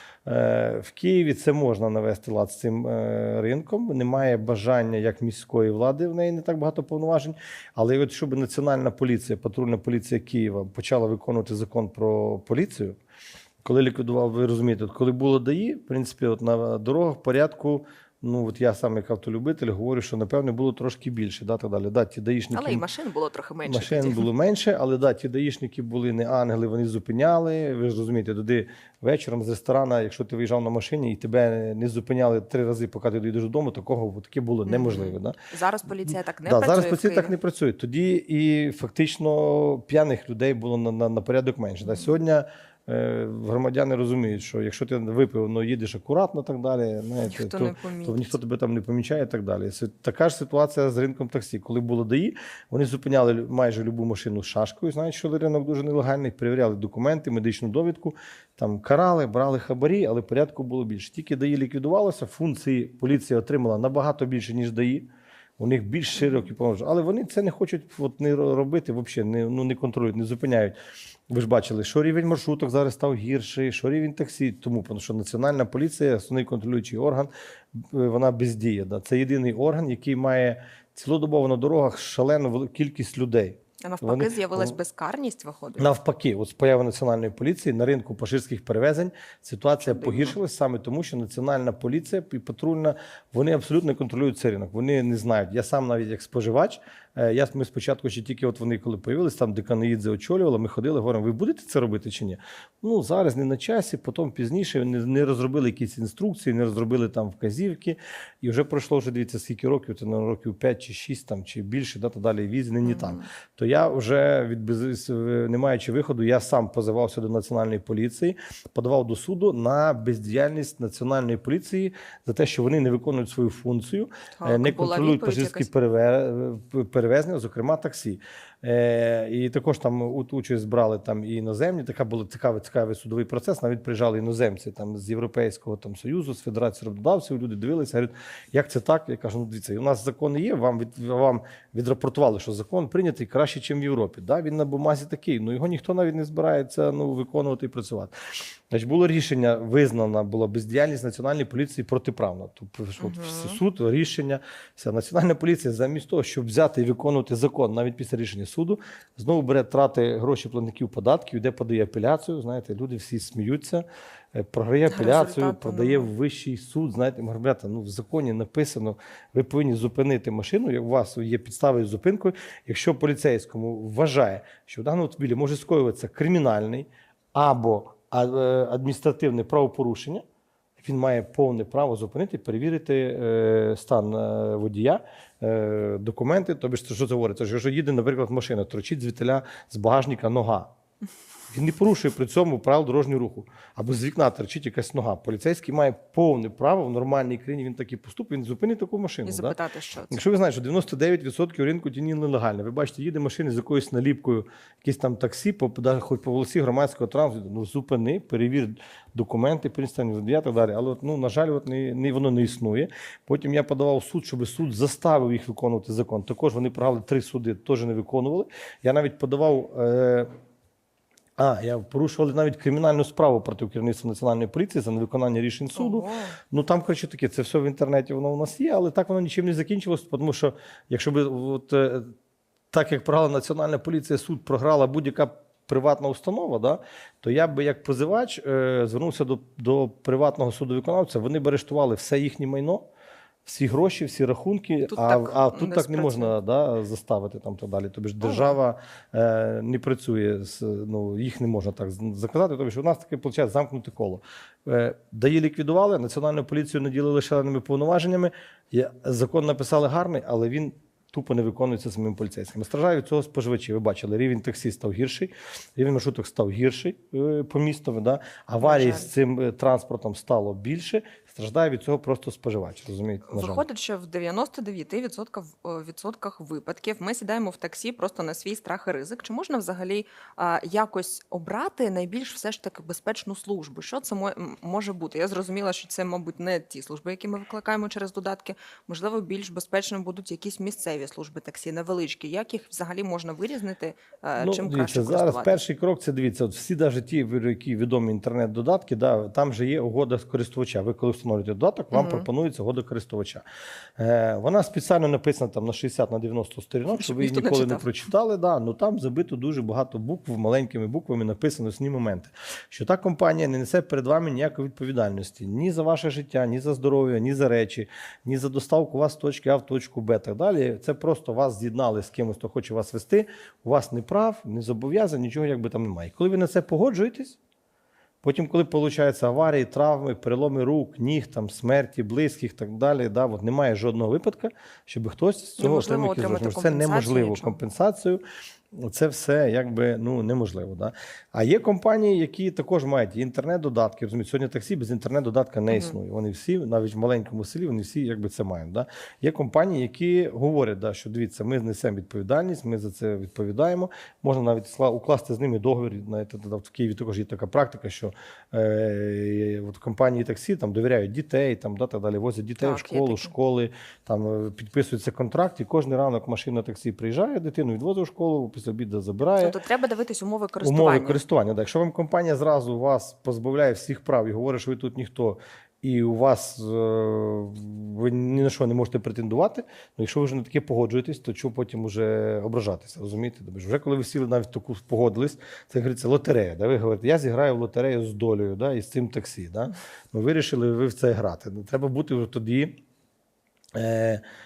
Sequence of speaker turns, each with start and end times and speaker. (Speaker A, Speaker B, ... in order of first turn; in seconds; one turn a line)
Speaker A: 0.2-13.0
Speaker A: 13.6-22.8
Speaker B: 22.5-24.3
Speaker A: 23.6-35.4
Speaker B: 34.7-37.3
Speaker A: 36.0-65.1
Speaker B: 47.2-48.4
Speaker A: 65.6-70.8
Speaker B: 66.2-66.5
Speaker A: 71.3-84.8
Speaker B: 83.8-85.9
Speaker A: 85.8-180.2
Speaker B: 89.8-90.4
Speaker B: 112.8-113.3
Speaker B: 124.4-125.7
Speaker B: 153.0-153.6
Speaker B: 164.9-166.1
Speaker A: 180.8-190.7
Speaker A: 191.5-199.6
Speaker B: 199.2-200.2
Speaker A: 200.1-220.3
Speaker A: 221.4-232.1
Speaker B: 225.7-226.4
Speaker A: 232.7-242.9
Speaker A: 243.4-273.6
Speaker B: 244.9-246.3
Speaker B: 248.2-248.6
Speaker B: 268.6-269.1
Speaker B: 273.3-295.6
Speaker A: 294.4-303.4
Speaker B: 301.9-302.3
Speaker A: 304.0-327.4
Speaker B: 306.9-307.9
Speaker A: 328.2-369.6
Speaker B: 335.6-337.6
Speaker B: 345.7-346.0
Speaker B: 362.6-363.3
Speaker B: 369.4-371.2
Speaker A: 370.6-392.8
Speaker A: 393.7-394.2